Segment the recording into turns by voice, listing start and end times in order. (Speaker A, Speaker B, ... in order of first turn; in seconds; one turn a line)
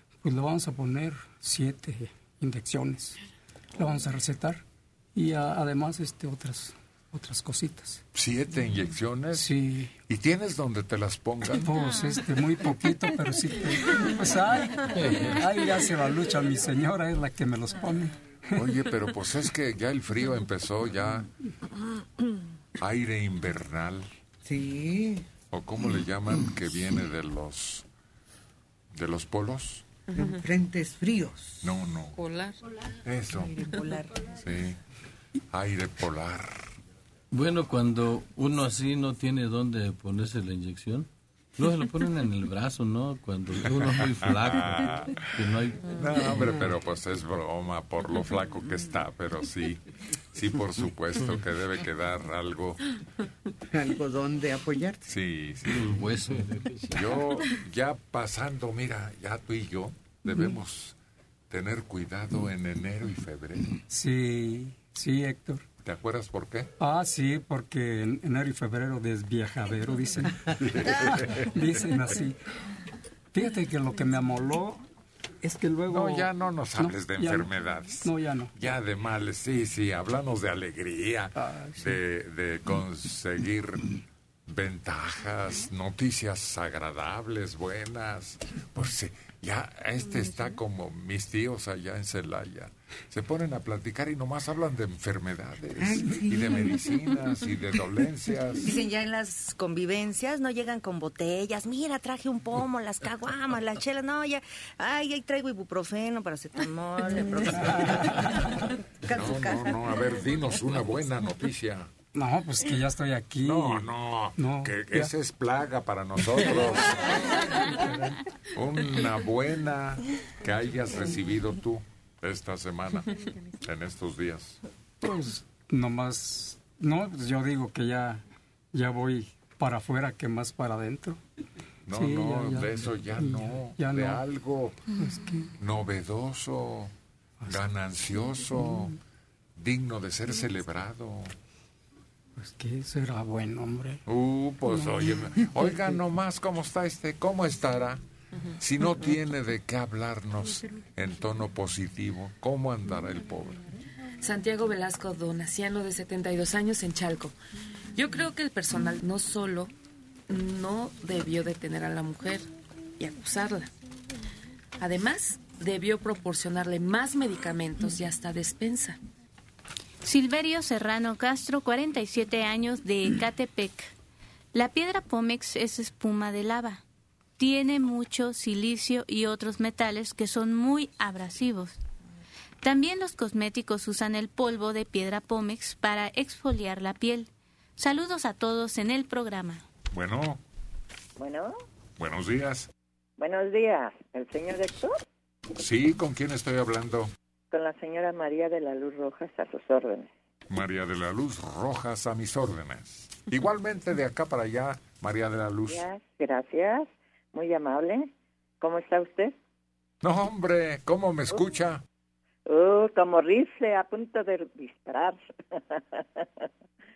Speaker A: 0.2-3.2
Speaker A: 3.8-4.6
Speaker A: 5.1-8.0
Speaker B: 8.1-9.5
Speaker A: 9.3-9.9
Speaker B: 10.1-11.7
Speaker A: 11.4-18.7
Speaker C: 15.0-15.4
Speaker B: 18.5-21.3
Speaker B: 22.8-24.1
Speaker D: 24.4-25.2
Speaker B: 25.5-27.8
Speaker B: 28.9-29.9
Speaker E: 30.1-30.4
Speaker D: 30.1-31.7
Speaker B: 31.6-32.1
Speaker E: 32.1-32.6
Speaker B: 33.0-33.5
Speaker E: 33.5-34.3
Speaker B: 34.4-34.8
Speaker B: 35.5-36.7
Speaker C: 37.3-46.6
Speaker B: 44.2-49.8
Speaker B: 50.3-52.8
Speaker D: 53.7-55.1
Speaker B: 55.1-55.9
Speaker C: 55.8-57.2
Speaker B: 56.9-60.9
Speaker B: 61.5-63.8
Speaker A: 63.9-65.7
Speaker B: 65.8-66.7
Speaker A: 66.8-72.3
Speaker B: 70.6-71.7
Speaker A: 73.3-74.8
Speaker A: 75.4-78.5
Speaker B: 75.9-83.9
Speaker A: 81.4-82.0
Speaker B: 84.5-98.7
Speaker D: 95.8-96.7
Speaker F: 98.6-108.2
Speaker F: 109.0-109.9
Speaker B: 109.1-111.9
Speaker A: 112.1-115.1
Speaker B: 113.4-117.2
Speaker B: 118.5-123.1
Speaker B: 123.6-124.6
Speaker A: 125.0-128.2
Speaker A: 128.7-131.2
Speaker B: 131.9-134.8
Speaker A: 131.9-134.2
Speaker A: 135.0-135.5
Speaker B: 135.6-136.9
Speaker B: 137.4-138.9
Speaker A: 138.6-138.8
Speaker B: 139.6-141.3
Speaker A: 142.4-144.0
Speaker B: 144.1-148.0
Speaker B: 148.6-153.6
Speaker E: 154.2-157.3
Speaker E: 157.9-159.7
Speaker E: 160.3-163.7
Speaker E: 164.8-169.0
Speaker G: 170.0-173.9
Speaker G: 174.5-176.8
Speaker G: 177.4-181.8
Speaker G: 182.6-189.7
Speaker B: 189.9-190.4
Speaker H: 191.2-191.5
Speaker B: 192.0-192.7
Speaker H: 193.2-195.0
Speaker B: 195.6-197.1
Speaker H: 197.5-200.1
Speaker B: 200.5-205.8
Speaker H: 205.7-209.3
Speaker B: 210.0-211.8
Speaker H: 212.4-216.5